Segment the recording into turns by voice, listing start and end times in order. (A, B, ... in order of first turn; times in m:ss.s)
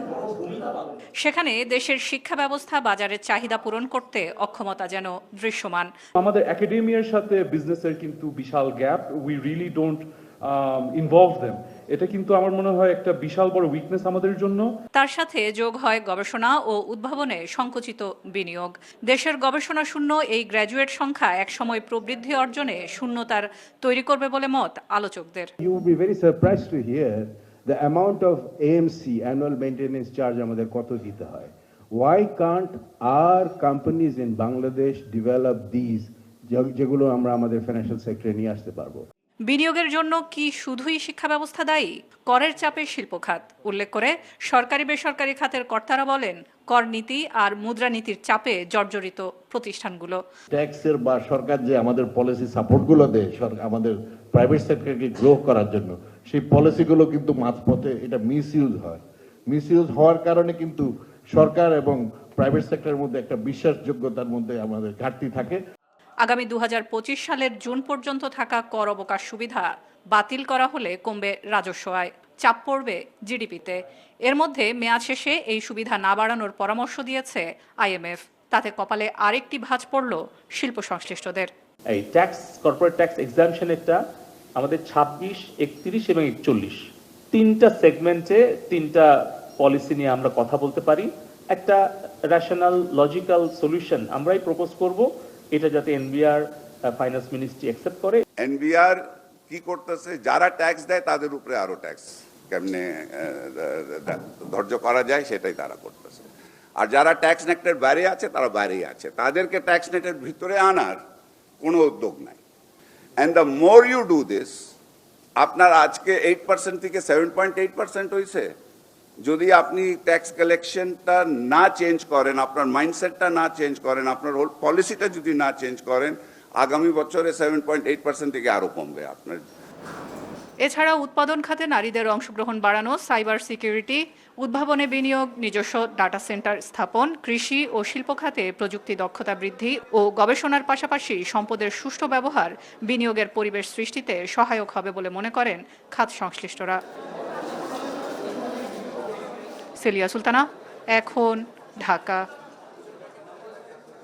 0:01.2-0:05.9 A
0:06.2-0:10.0 B
0:10.6-0:14.6 B
0:14.9-0:25.5 A
0:25.6-0:39.0 C
0:39.5-0:50.2 A
0:50.5-1:05.6 D
1:06.2-1:21.5 A
1:21.9-1:24.0 E
1:24.6-1:26.8 E
1:27.3-1:29.1 E
1:29.6-1:38.2 E
1:38.4-1:39.0 F
1:39.5-1:51.0 F
1:51.6-1:52.4 F
1:53.2-1:54.5 F
1:55.4-1:58.5 F
1:59.2-2:09.4 F
2:10.6-2:26.8 A
2:29.8-2:32.2 A